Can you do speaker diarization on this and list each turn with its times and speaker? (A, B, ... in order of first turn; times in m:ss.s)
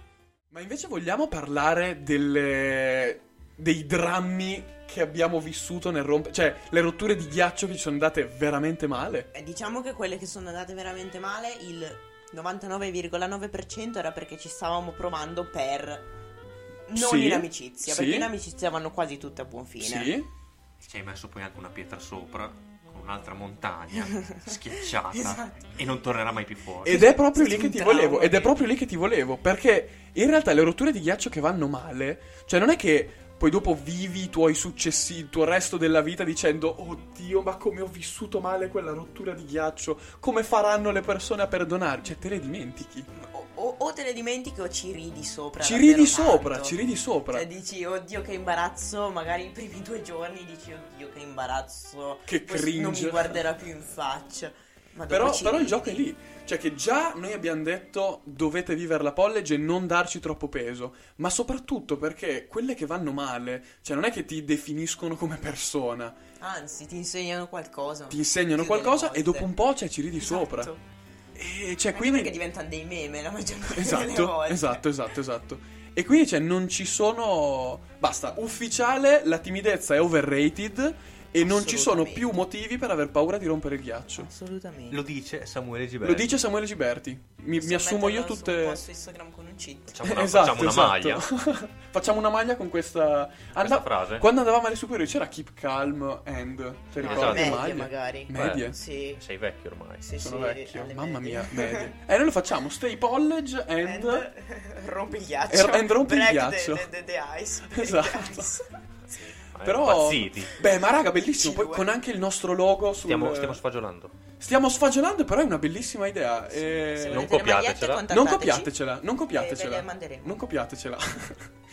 0:00.5-0:09.3 A
0:09.3-0:16.1 B
0:16.9-0:20.1 B
0:16.9-0:18.3 A
0:19.8-0:20.3 A
0:20.8-0:27.0 C
0:24.2-0:24.5 B
0:25.1-0:25.7 B
0:26.8-0:28.6 B
0:26.8-0:43.1 A
0:43.1-0:46.8 B
0:45.6-0:47.5 A
0:47.3-0:56.1 B
0:52.3-0:53.4 A
0:55.1-1:06.2 A
1:06.4-1:09.5 B
1:08.1-1:10.7 A
1:10.2-1:10.8 B
1:11.3-1:12.4 A
1:11.9-1:14.8 B
1:13.7-1:24.3 A
1:21.4-1:22.4 B
1:24.2-1:25.0 B
1:24.9-1:26.3 C
1:26.0-1:28.8 A
1:27.6-1:30.0 B
1:29.9-1:31.3 C
1:30.0-1:38.8 A
1:33.5-1:34.3 C
1:37.0-1:37.6 C
1:37.0-1:39.2 B
1:38.3-1:40.0 C
1:40.0-1:41.9 B
1:40.2-1:44.3 A
1:43.8-1:48.7 B
1:45.5-1:46.9 A
1:47.7-1:48.5 A
1:49.1-1:50.6 C
1:49.6-1:53.6 A
1:51.3-1:51.9 B
1:53.0-1:54.1 C
1:54.4-1:57.4 A
1:56.5-1:58.7 B
1:57.1-1:58.0 C
1:58.1-2:01.5 A
1:59.3-2:00.4 B